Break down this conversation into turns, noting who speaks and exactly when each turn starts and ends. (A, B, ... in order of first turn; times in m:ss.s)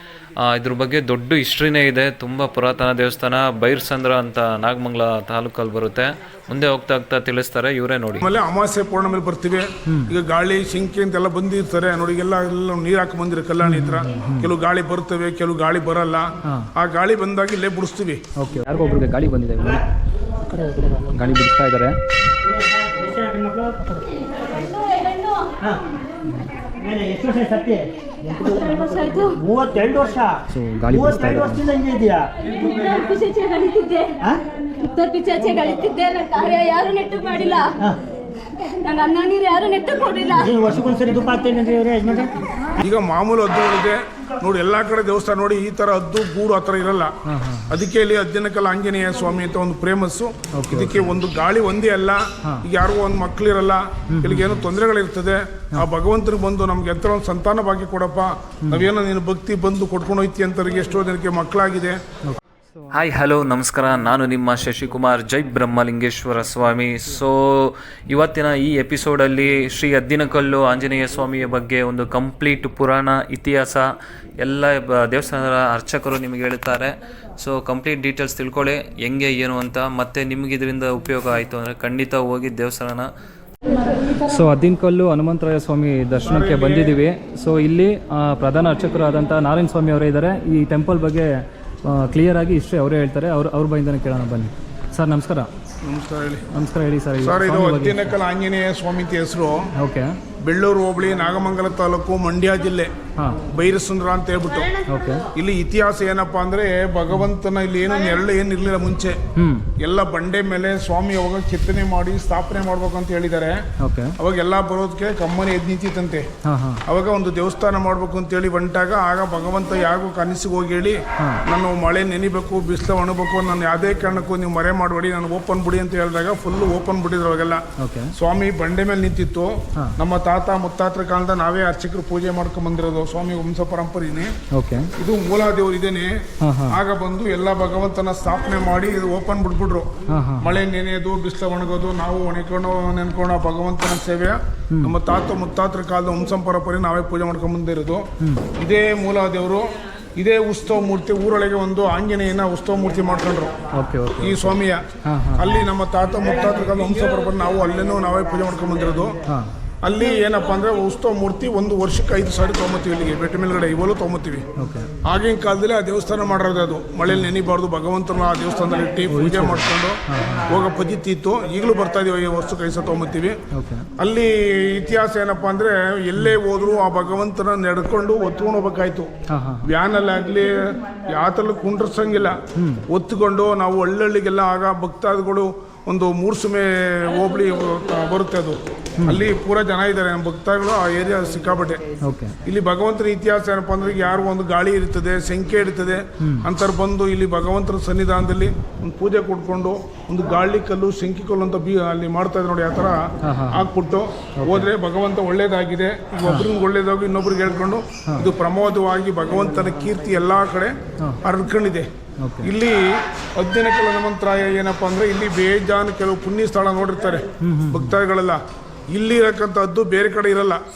0:00.4-0:08.3 A
0:08.2-0:18.2 B
0:13.6-0:14.5 C
0:18.4-0:19.8 C
0:20.8-0:22.0 C
0:22.8-0:23.9 D
0:24.6-0:25.6 E
0:26.8-0:28.8 D
0:28.4-0:29.4 E
0:29.4-0:32.3 D
0:30.5-0:31.6 C
0:32.5-0:34.2 E
0:34.8-0:37.8 E
0:38.6-0:40.6 E
0:40.3-0:42.4 D
0:42.8-0:47.1 B
0:47.3-0:47.8 C
0:47.7-1:02.0 B
0:50.6-0:51.1 C
0:54.1-0:54.7 C
1:03.0-1:23.1 A
1:24.2-1:31.3 C
1:26.2-1:27.0 B
1:31.8-1:35.5 C
1:35.8-1:36.4 B
1:36.5-1:38.1 C
1:37.2-1:39.7 B
1:39.8-1:40.2 C
1:40.4-1:42.9 B
1:43.5-1:44.8 B
1:44.9-1:45.3 C
1:45.3-1:49.2 B
1:49.4-1:49.7 C
1:49.8-1:53.6 B
1:53.8-1:54.2 C
1:54.2-1:56.3 B
1:56.4-1:56.8 C
1:56.9-2:07.6 B
2:07.8-2:08.1 C
2:08.2-2:14.3 B
2:14.5-2:14.9 C
2:15.0-2:16.2 B
2:16.4-2:16.8 C
2:16.7-2:19.9 B
2:20.1-2:20.5 C
2:20.4-2:33.5 B
2:33.8-2:35.5 C
2:34.2-2:34.8 B
2:35.4-2:39.2 B
2:39.8-2:44.5 B
2:44.6-2:44.9 C
2:45.0-2:53.4 B
2:49.1-2:50.5 C
2:53.5-2:53.9 C
2:54.0-2:59.1 B
2:59.3-2:59.7 C
2:59.6-3:02.4 B
3:02.6-3:02.8 C
3:02.9-3:11.8 B
3:12.1-3:12.4 C
3:12.4-3:31.9 B
3:23.3-3:23.6 C
3:24.4-3:24.7 C
3:26.2-3:26.5 C
3:32.2-3:32.5 C
3:32.4-3:40.6 B
3:37.4-3:38.0 C